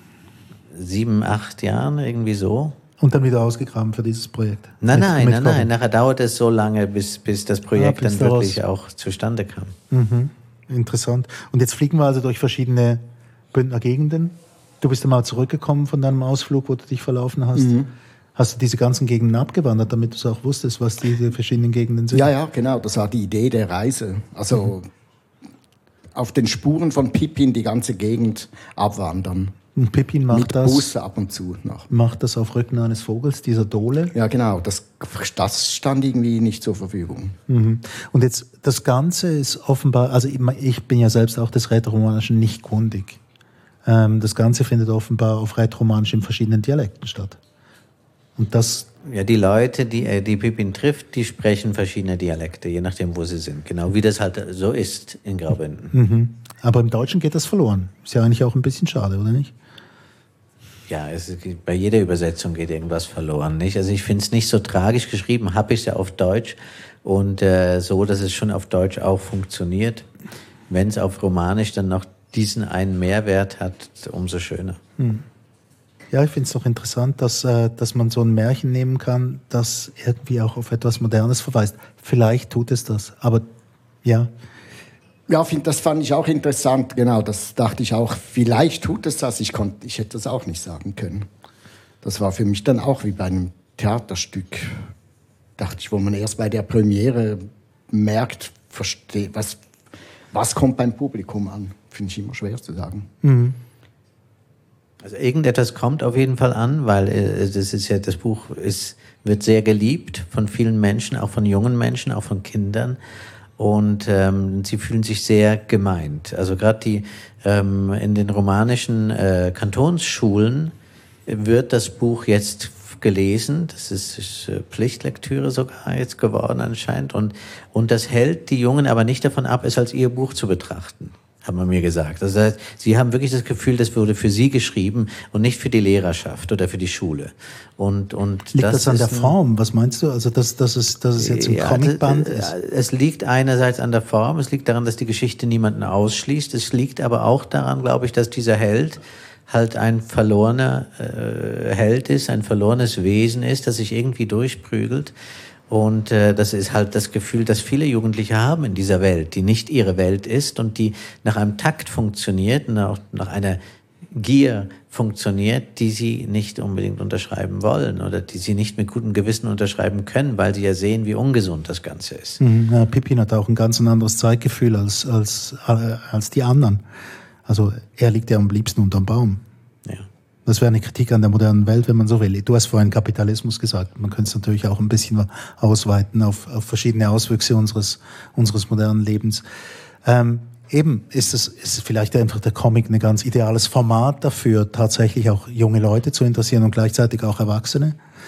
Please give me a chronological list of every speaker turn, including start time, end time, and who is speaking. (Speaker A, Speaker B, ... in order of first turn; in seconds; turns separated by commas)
Speaker A: 0.7-2.8, Speaker B: 3.0-5.7, Speaker A: 4.8-9.8, Speaker B: 7.7-8.6, Speaker B: 9.9-17.8, Speaker C: 17.5-17.9, Speaker B: 18.4-22.3, Speaker C: 22.1-24.9, Speaker C: 26.1-29.5, Speaker B: 29.8-30.9, Speaker C: 30.3-31.9, Speaker B: 31.9-34.1, Speaker C: 34.1-37.4, Speaker B: 37.5-43.2, Speaker B: 43.8-47.4, Speaker B: 48.4-48.9, Speaker A: 49.0-55.9, Speaker B: 55.9-59.5, Speaker A: 60.9-70.1, Speaker A: 70.7-74.8, Speaker B: 75.0-75.2, Speaker B: 76.1-83.4, Speaker B: 84.0-84.3, Speaker C: 85.3-91.3, Speaker C: 92.0-94.8, Speaker C: 95.6-99.6, Speaker C: 100.3-103.1, Speaker B: 103.2-103.6, Speaker A: 105.0-113.0, Speaker A: 113.6-120.7, Speaker A: 121.3-139.3, Speaker B: 138.5-142.5, Speaker A: 141.2-155.1, Speaker A: 155.7-163.6, Speaker A: 164.1-172.4, Speaker B: 172.4-176.8, Speaker B: 177.4-179.4, Speaker B: 180.4-189.4, Speaker B: 190.0-198.0